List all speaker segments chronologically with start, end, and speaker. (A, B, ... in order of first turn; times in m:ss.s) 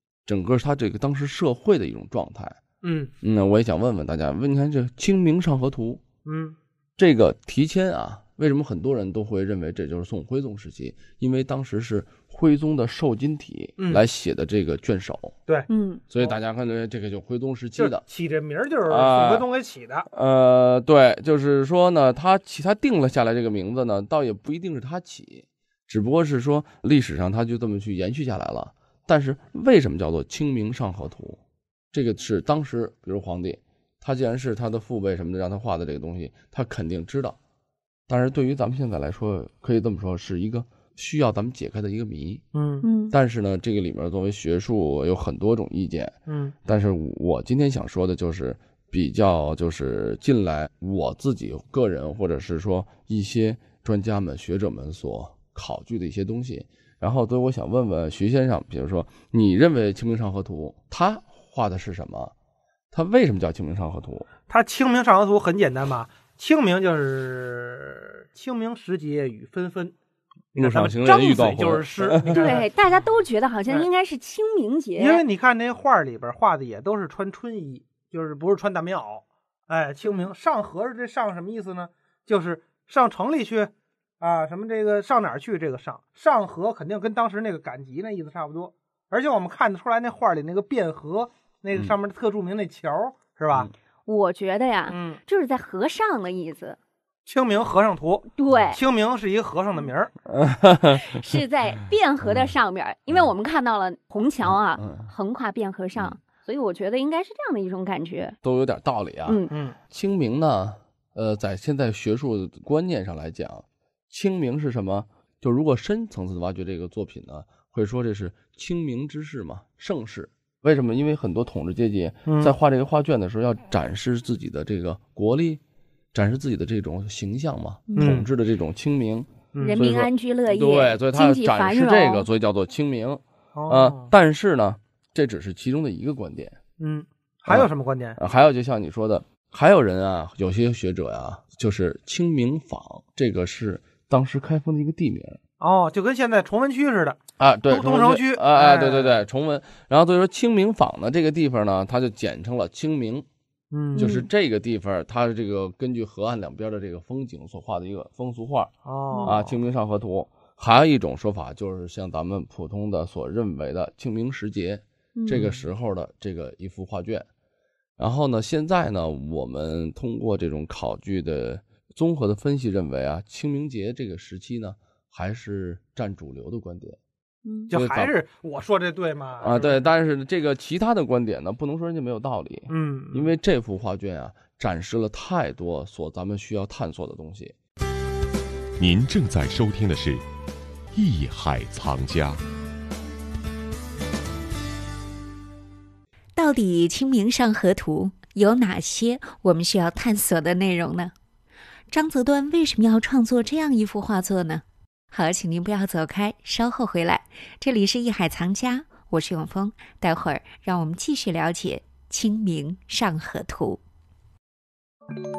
0:00.3-0:02.6 A
0:02.8-0:03.1 B
0:03.2-0:06.0 A
0:06.2-0:06.6 B
0:07.0-0:15.4 A
0:15.5-0:16.4 B
0:15.7-0:16.0 C
0:16.1-0:18.0 A
0:17.8-0:20.1 B
0:18.9-0:19.5 A
0:20.1-0:31.4 A
0:31.9-0:37.4 A
0:38.1-0:42.4 A
0:42.5-0:42.9 B
0:42.8-0:43.1 C
0:43.1-0:46.2 A
0:46.3-0:46.5 B
0:46.7-1:02.3 A
1:02.9-1:04.3 A
1:04.5-1:09.9 B
1:10.5-1:12.7 B
1:10.6-1:12.5 A
1:12.3-1:15.2 C
1:15.0-1:33.7 B
1:34.1-1:36.8 C
1:34.9-1:35.2 B
1:37.3-1:40.1 B
1:38.3-1:38.8 C
1:40.3-1:41.0 A
1:41.0-1:48.4 C
1:44.7-1:45.1 A
1:48.4-2:05.6 A
1:49.3-1:49.5 C
1:49.5-1:49.8 B
2:02.3-2:02.5 B
2:06.1-2:16.6 A
2:08.0-2:08.3 B
2:09.5-2:09.8 B
2:09.6-2:12.3 C
2:13.6-2:14.1 B
2:16.8-2:18.2 B
2:17.5-2:25.4 A
2:25.6-2:29.2 B
2:27.4-2:33.3 A
2:33.7-2:34.1 B
2:34.0-2:34.3 C
2:34.0-2:38.7 A
2:38.9-2:39.6 B
2:39.1-2:39.4 C
2:39.2-2:47.3 A
2:45.2-2:45.5 C
2:48.0-2:57.0 A
2:57.4-2:57.7 C
2:57.7-2:59.9 B
2:57.7-2:58.1 A
2:59.4-3:07.6 A
3:02.7-3:03.3 B
3:08.8-3:10.2 D
3:10.9-3:12.4 D
3:16.4-3:21.1 E
3:21.9-3:33.8 E